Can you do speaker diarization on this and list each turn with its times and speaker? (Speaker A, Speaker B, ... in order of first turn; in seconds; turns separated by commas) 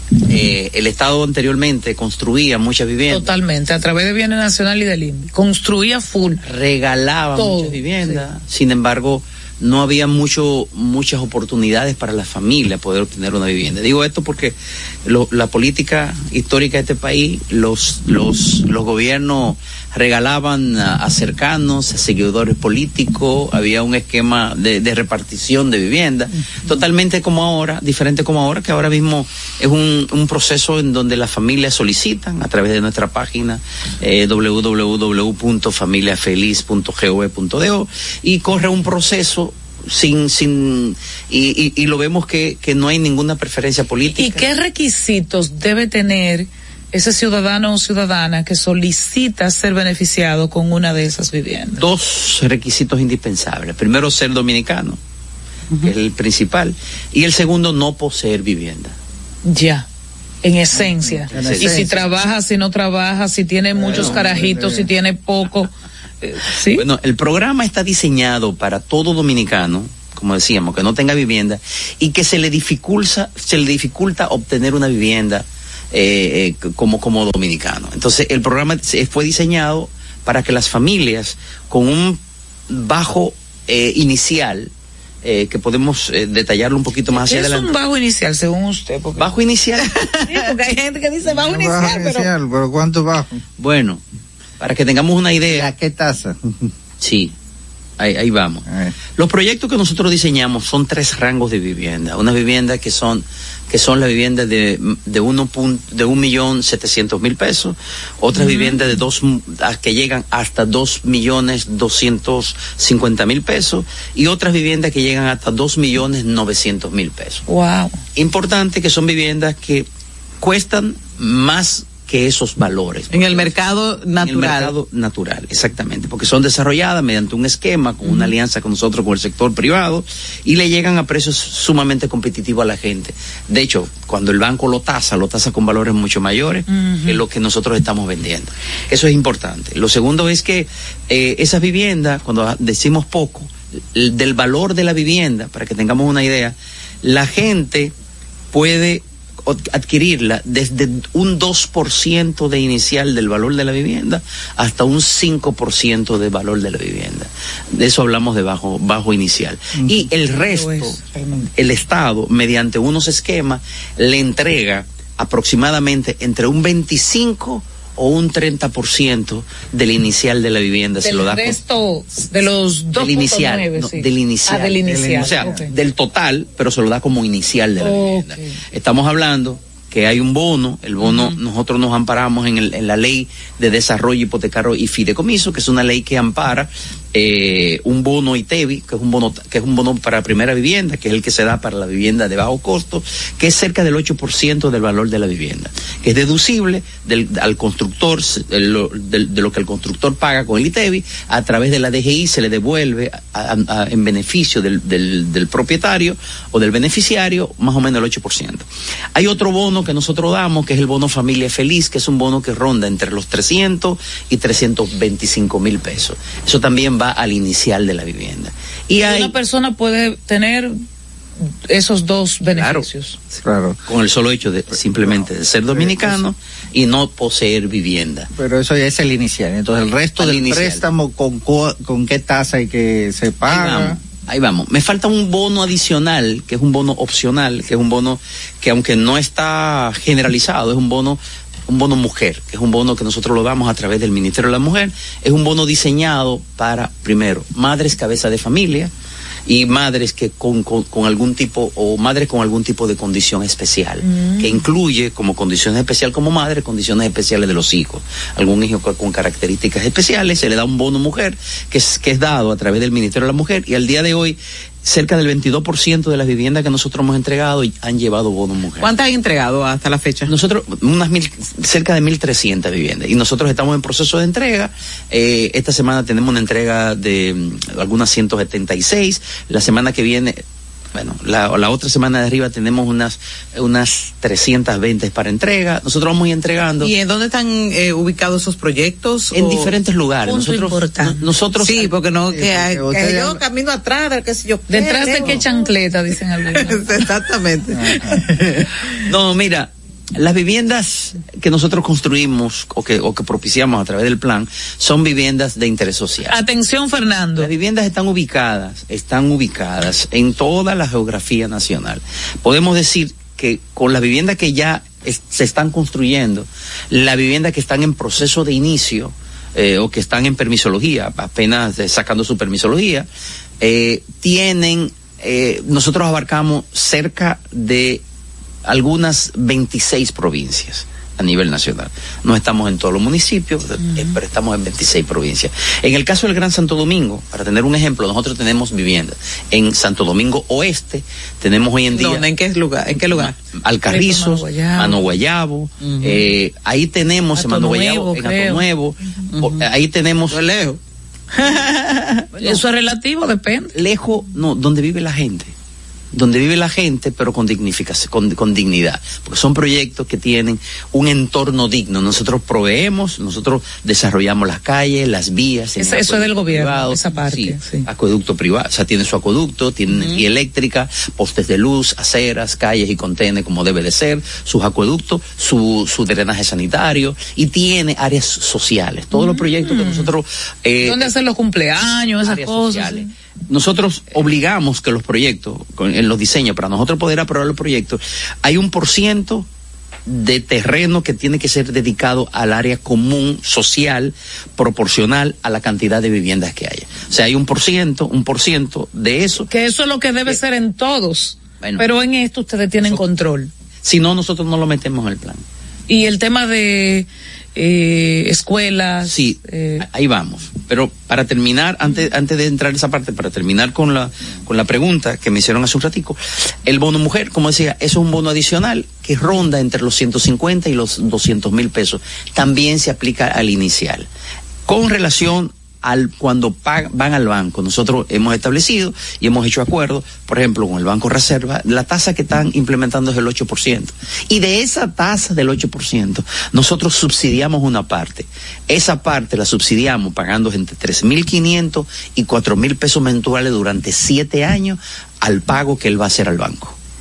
Speaker A: 0.2-3.3, Speaker B: 3.1-6.4, Speaker A: 6.4-44.5, Speaker B: 7.4-8.2, Speaker B: 44.2-51.8, Speaker A: 51.8-55.0, Speaker A: 55.8-59.0, Speaker B: 59.5-59.9, Speaker B: 60.4-65.7, Speaker C: 60.8-62.0, Speaker A: 61.3-61.9, Speaker C: 63.8-64.9, Speaker A: 63.9-64.2, Speaker B: 66.2-66.8, Speaker A: 66.7-84.7, Speaker A: 85.2-87.7, Speaker B: 87.1-89.3, Speaker A: 89.2-89.9, Speaker D: 90.0-90.3, Speaker B: 90.3-92.3, Speaker C: 91.3-93.4, Speaker A: 93.6-94.0, Speaker A: 94.6-95.7, Speaker C: 95.5-96.7, Speaker A: 97.0-97.3, Speaker A: 98.0-98.6, Speaker C: 98.7-99.0, Speaker A: 99.2-117.5, Speaker B: 108.3-108.8, Speaker B: 117.5-118.0, Speaker A: 118.2-119.9, Speaker A: 120.4-123.5, Speaker D: 123.1-124.7, Speaker A: 124.2-147.9, Speaker B: 128.0-128.3, Speaker B: 136.7-137.2, Speaker A: 148.5-161.0, Speaker C: 159.8-160.1, Speaker B: 160.3-161.5, Speaker A: 161.6-171.6, Speaker B: 171.0-175.7, Speaker A: 173.0-219.3, Speaker C: 174.8-175.7, Speaker B: 177.8-178.6, Speaker B: 181.0-181.3, Speaker B: 219.0-220.8, Speaker B: 221.7-223.2, Speaker A: 222.6-223.4, Speaker C: 223.4-223.8, Speaker A: 223.9-228.3, Speaker C: 224.9-226.3, Speaker C: 228.3-234.0, Speaker A: 230.2-230.8, Speaker A: 233.5-248.9, Speaker A: 249.5-268.9, Speaker B: 254.0-254.7, Speaker D: 268.8-270.3, Speaker A: 270.3-280.4, Speaker A: 280.9-286.9, Speaker D: 286.8-289.8, Speaker A: 289.3-291.9, Speaker B: 290.3-291.2, Speaker D: 291.6-295.5, Speaker C: 292.3-293.4, Speaker B: 294.7-296.9, Speaker D: 296.5-298.7, Speaker C: 297.7-298.7, Speaker A: 299.1-306.4, Speaker B: 306.3-307.5, Speaker A: 307.4-323.1, Speaker A: 323.6-328.0, Speaker A: 328.6-342.2, Speaker B: 333.8-334.2, Speaker D: 341.9-343.3, Speaker A: 343.1-350.4, Speaker B: 343.9-345.1, Speaker D: 345.8-346.2, Speaker B: 347.4-348.6, Speaker D: 349.3-349.6, Speaker D: 350.3-350.8, Speaker D: 351.3-352.6, Speaker B: 352.4-353.8, Speaker A: 353.8-355.5, Speaker A: 356.1-381.1, Speaker B: 365.8-367.9, Speaker D: 369.9-370.2, Speaker B: 379.1-380.1, Speaker B: 380.8-383.1, Speaker A: 382.2-389.5, Speaker A: 390.1-399.5, Speaker B: 399.5-403.5, Speaker A: 403.8-405.4, Speaker B: 405.9-409.9, Speaker A: 409.0-424.1, Speaker A: 424.7-446.8